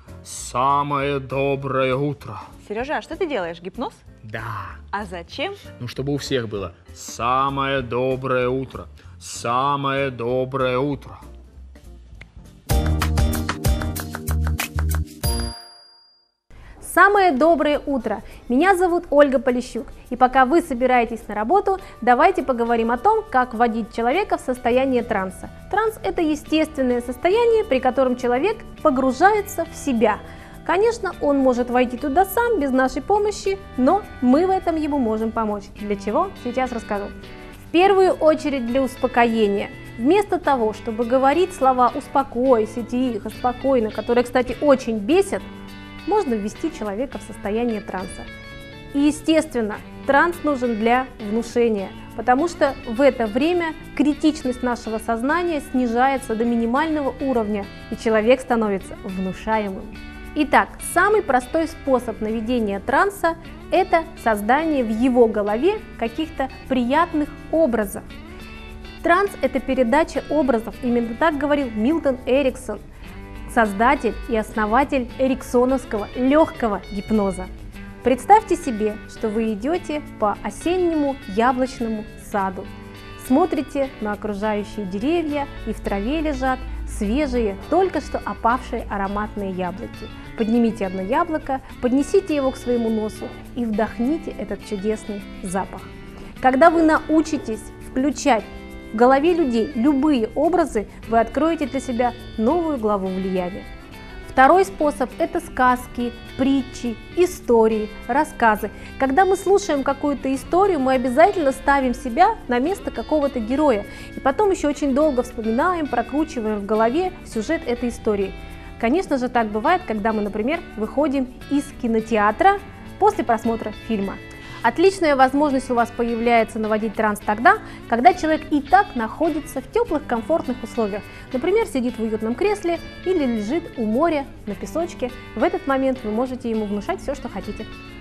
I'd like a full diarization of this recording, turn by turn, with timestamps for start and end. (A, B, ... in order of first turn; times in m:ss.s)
0:00.2-0:02.5 A
0:02.6-0:04.0 B
0:04.2-0:04.8 A
0:04.9-0:05.7 B
0:05.7-0:11.2 A
0:16.8-0:37.1 C
0:37.7-0:45.5 C
0:46.0-0:48.3 C
0:48.9-1:08.0 C
1:09.0-1:12.8 C
1:13.5-1:17.5 C
1:18.0-1:35.9 C
1:36.4-1:43.7 C
1:44.2-2:17.7 C